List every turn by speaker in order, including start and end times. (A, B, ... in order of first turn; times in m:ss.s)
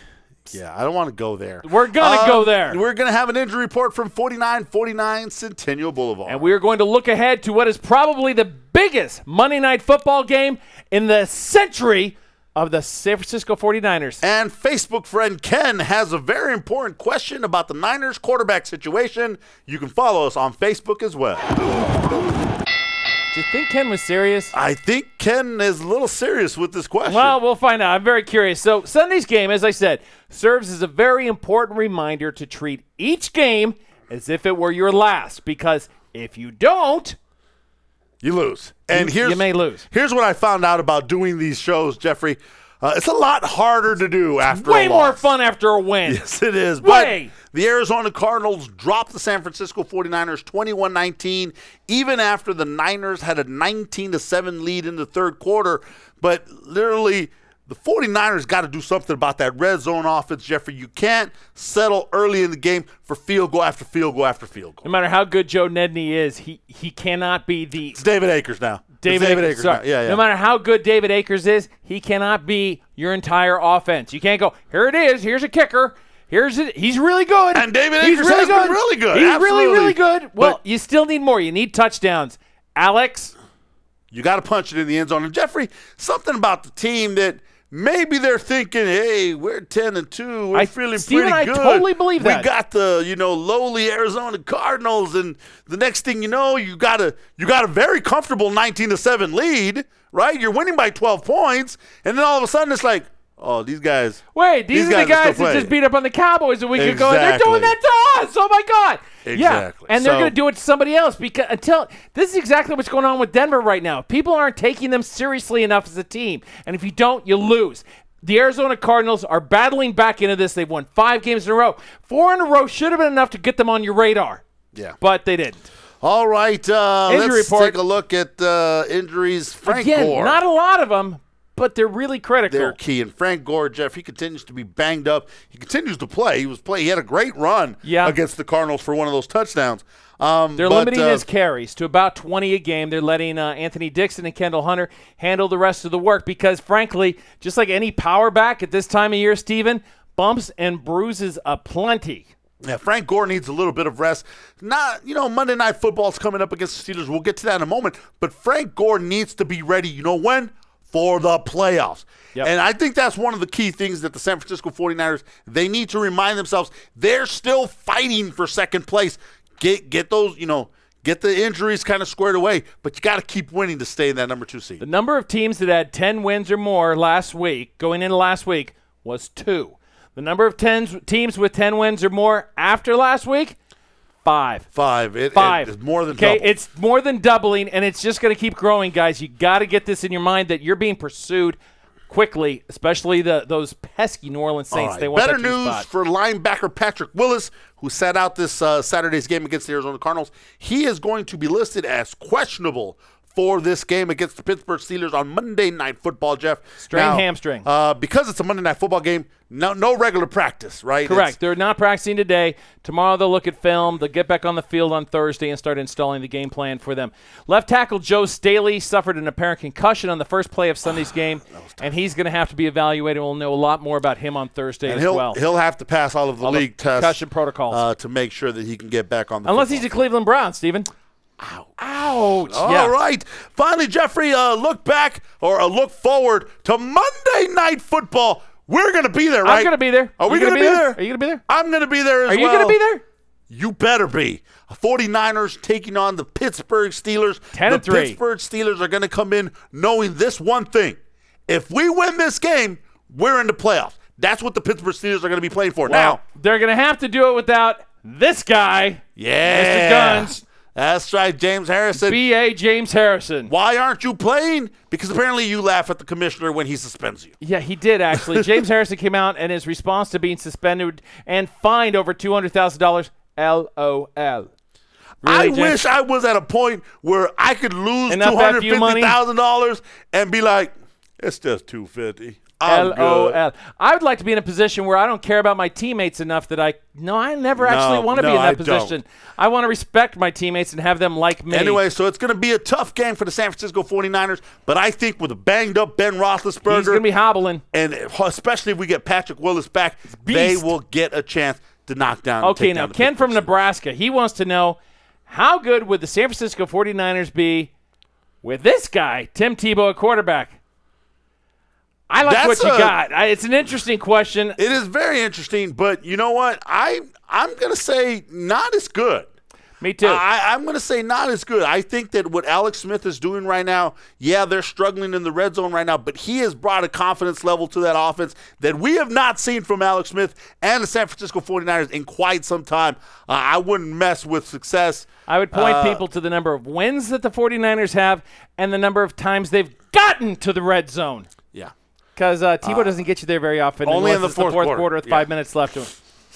0:00.5-0:06.5 A
0:01.6-0:02.8 B
0:06.3-0:14.2 B
0:14.2-0:21.6 A
0:23.3-0:24.5 B
0:24.5-0:27.4 A
0:27.0-0:37.2 B
0:38.2-0:45.3 A
0:38.9-0:39.8 B
0:44.5-0:46.2 B
0:46.0-1:04.9 A
0:46.8-0:47.3 B
1:04.8-1:08.0 B
1:07.9-1:10.2 A
1:09.0-1:23.3 B
1:17.5-1:20.6 A
1:24.1-1:44.2 A
1:30.5-1:32.5 B
1:44.3-2:04.4 B
1:44.7-1:45.7 A
1:46.7-1:47.7 A
1:49.2-1:50.3 A
2:05.0-2:05.7 B
2:06.0-2:10.4 A
2:07.1-2:07.8 B
2:09.6-2:12.8 B
2:12.5-2:21.2 A
2:17.8-2:18.2 B
2:20.6-2:32.3 B
2:32.6-2:54.8 A
2:54.8-3:03.6 B
3:04.2-3:04.7 B
3:04.7-3:06.4 A
3:05.3-3:11.6 B
3:12.1-3:15.8 B
3:14.7-3:31.4 A
3:26.8-3:27.6 B
3:31.0-3:45.4 B
3:44.8-3:49.9 A
3:46.4-3:47.8 B
3:49.4-3:50.9 B
3:51.4-4:02.8 A
3:51.8-3:52.9 B
3:59.4-4:01.4 B
4:02.3-4:03.0 B
4:03.5-4:11.0 A
4:07.5-4:08.2 B
4:11.5-4:16.2 A
4:15.8-4:20.4 B
4:19.2-4:22.2 A
4:22.0-4:23.5 B
4:23.5-4:27.3 A
4:27.4-4:34.5 B
4:28.1-4:28.6 A
4:35.2-4:35.8 B
4:35.2-4:43.4 A
4:38.1-4:39.2 B
4:42.6-4:51.8 B
4:47.6-4:49.0 A
4:51.5-4:57.0 A
4:56.6-4:57.6 B
4:57.7-5:03.5 A
5:00.2-5:00.7 B
5:02.4-5:07.7 B
5:08.4-5:10.6 B
5:12.1-5:14.6 B
5:12.2-5:13.0 A
5:14.6-5:19.2 A
5:19.8-5:20.2 B
5:20.0-5:36.0 A
5:35.3-5:41.3 B
5:42.2-5:45.9 B
5:42.6-5:42.9 A
5:43.8-5:45.3 A